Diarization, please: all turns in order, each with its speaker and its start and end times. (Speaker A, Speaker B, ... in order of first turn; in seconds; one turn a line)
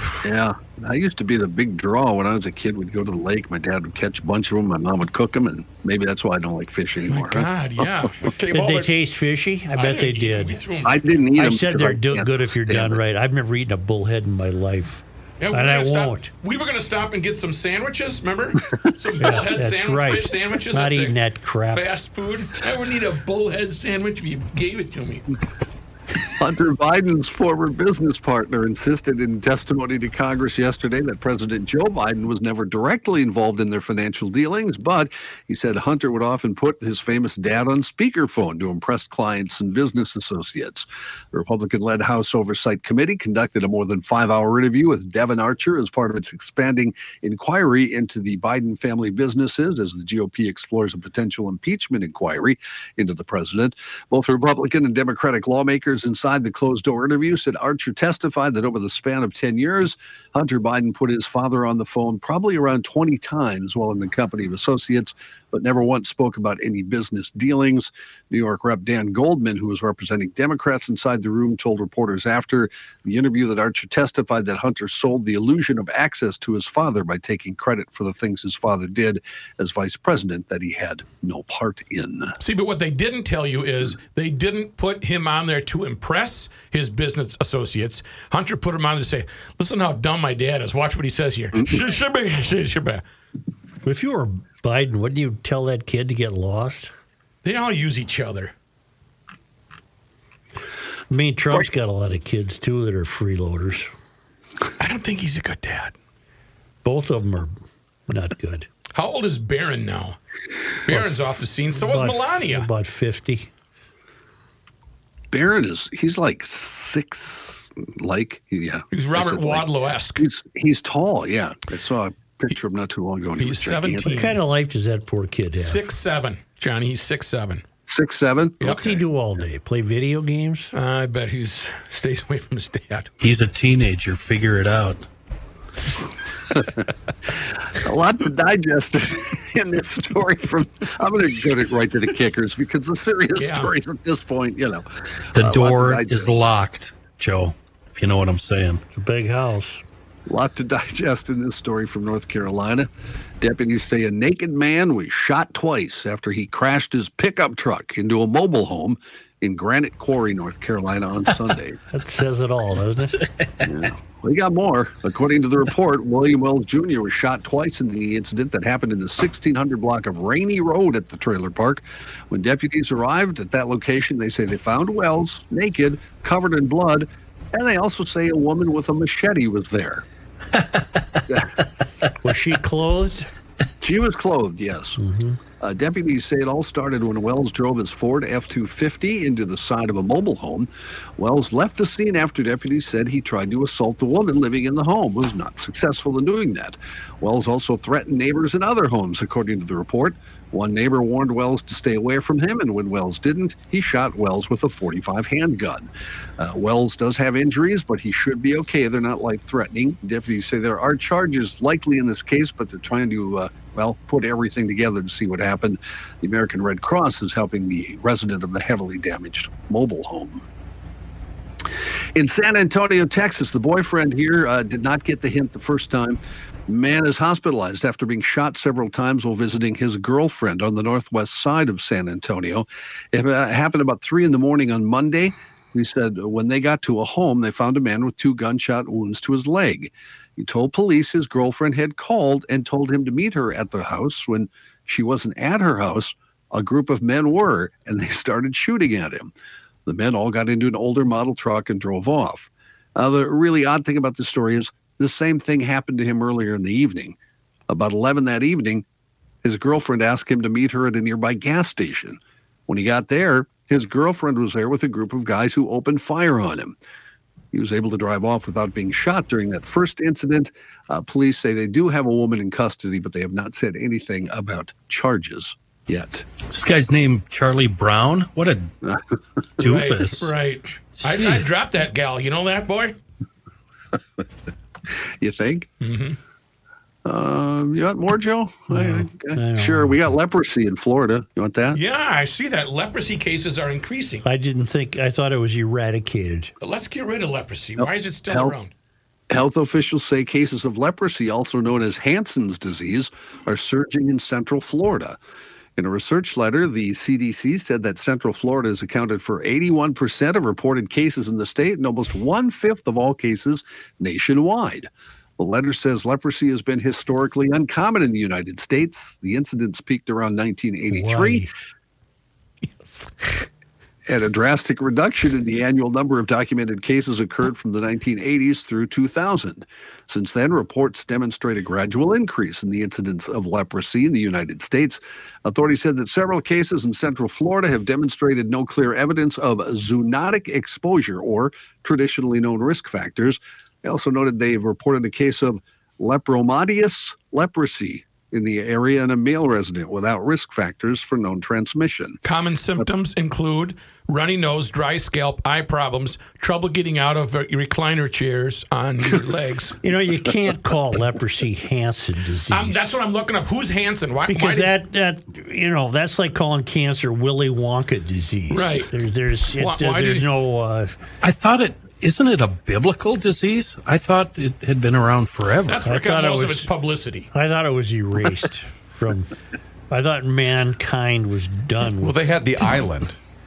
Speaker A: 0.2-7.9
Speaker B: 7.1-8.2
Speaker C: 8.2-8.9
Speaker D: 8.5-10.6
Speaker B: 9.7-11.1
Speaker A: 10.8-13.0
Speaker D: 11.4-16.3
Speaker B: 15.4-25.2
Speaker D: 19.2-21.9
Speaker A: 26.4-82.3
Speaker B: 82.4-93.0
Speaker D: 93.8-96.9
Speaker B: 97.4-98.5
Speaker D: 101.1-103.9
Speaker B: 104.8-105.9
Speaker D: 106.8-107.6
Speaker D: 108.1-108.7
Speaker B: 108.9-110.2
Speaker B: 110.9-112.7
Speaker D: 110.9-113.5
Speaker A: 115.3-124.3
Speaker B: 118.9-120.3
Speaker B: 123.4-124.4
Speaker D: 124.1-125.9
Speaker B: 125.5-127.6
Speaker A: 127.9-129.0
Speaker D: 128.6-130.7
Speaker B: 130.7-133.1
Speaker E: 133.2-135.0
Speaker A: 136.5-146.4
Speaker B: 143.4-143.7
Speaker E: 145.3-148.8
Speaker D: 148.9-149.8
Speaker A: 150.3-152.9
Speaker A: 153.4-161.8
Speaker D: 161.9-163.3
Speaker A: 163.6-180.1
Speaker A: 181.3-181.6
Speaker D: 182.2-183.3
Speaker A: 183.8-185.0
Speaker D: 185.0-185.4
Speaker A: 185.6-220.4
Speaker A: 222.2-249.3
Speaker A: 249.9-257.2
Speaker A: 257.7-258.9
Speaker A: 259.4-266.8
Speaker A: 267.5-276.2
Speaker E: 276.5-278.7
Speaker E: 279.6-280.3
Speaker B: 279.6-282.9
Speaker E: 281.1-281.4
Speaker A: 284.9-285.7
Speaker B: 285.8-286.2
Speaker A: 287.1-291.8
Speaker D: 288.7-290.0
Speaker B: 291.7-294.2
Speaker D: 294.2-296.5
Speaker B: 296.6-298.7
Speaker A: 297.8-298.6
Speaker A: 299.3-305.2
Speaker A: 305.8-321.5
Speaker D: 320.9-321.5
Speaker A: 324.1-352.2
Speaker B: 352.2-359.8
Speaker D: 359.8-362.9
Speaker B: 362.5-364.7
Speaker D: 364.3-371.0
Speaker B: 368.5-368.9
Speaker B: 369.6-370.3
Speaker E: 371.2-375.8
Speaker B: 375.6-377.3
Speaker D: 375.9-376.7
Speaker D: 377.3-379.3
Speaker D: 379.9-382.2
Speaker C: 382.0-383.2